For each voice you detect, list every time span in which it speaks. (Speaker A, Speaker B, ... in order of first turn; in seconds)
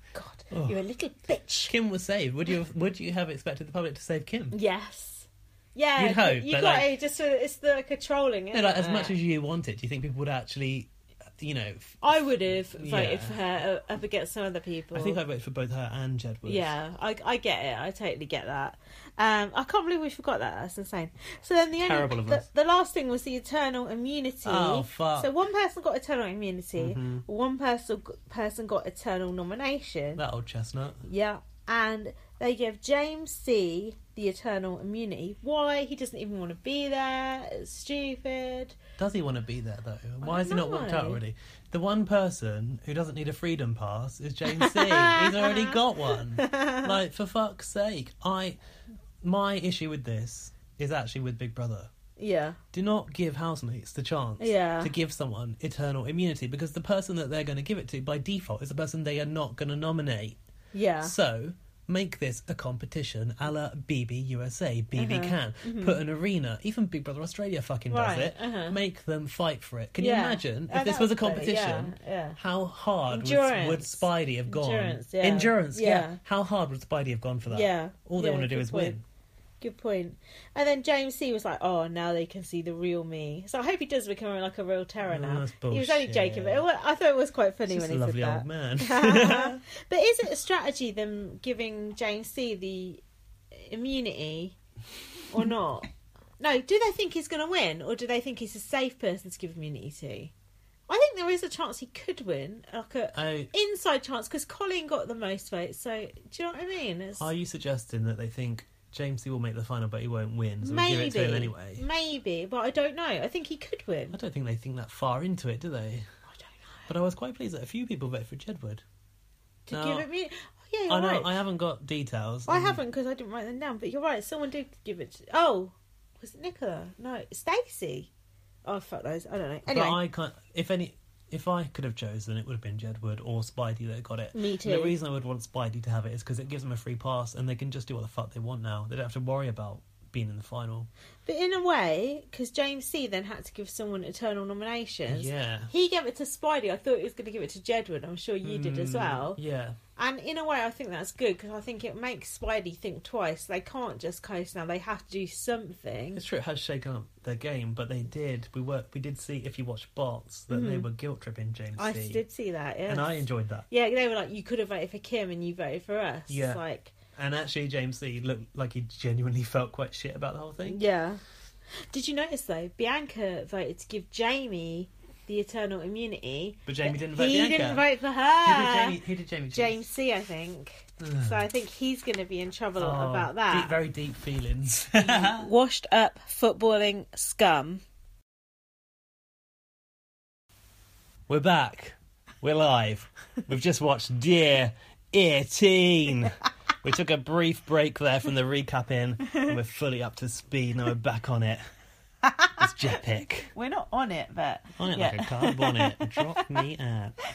Speaker A: 0.1-1.7, 4.5-9.2, 12.0-15.2, 16.4-30.2, 31.0-38.8, 40.2-41.2, 44.5-46.9, 52.2-52.6, 54.4-54.9, 60.7-61.1, 64.9-66.0, 67.9-68.8, 70.0-72.4, 73.1-76.2, 77.5-79.0, 79.6-93.0, 93.5-94.5, 95.3-95.9, 96.4-100.3, 100.9-107.3, 110.6-114.2, 116.3-116.9, 119.7-121.4, 122.5-128.1, 128.7-130.0, 134.3-134.9, 141.2-149.4, 150.0-156.2, 160.5-160.9, 161.8-166.9, 170.6-171.2, 171.9-179.0, 179.5-183.8, 185.0-187.8, 202.2-202.7, 203.5-206.6
Speaker B: 0.5-0.8, 1.6-4.5, 6.0-6.9, 8.5-12.0, 12.8-13.4, 14.9-16.7, 21.8-22.5, 24.4-25.3, 26.8-27.2, 30.1-31.0, 39.0-48.6, 49.2-51.9, 52.7-60.4, 61.0-79.0, 85.0-86.7, 87.7-89.6, 103.1-103.5, 107.2-111.8, 114.1-116.1, 116.9-118.8, 119.7-120.0, 120.9-122.8, 129.7-140.9, 145.1-145.7, 148.4-149.8, 156.1-162.2, 162.9-163.7, 166.3-166.6, 167.1-170.8, 176.7-177.9, 178.4-179.8, 181.0-181.4, 182.8-185.5, 191.3-201.6, 202.6-203.5, 204.8-207.2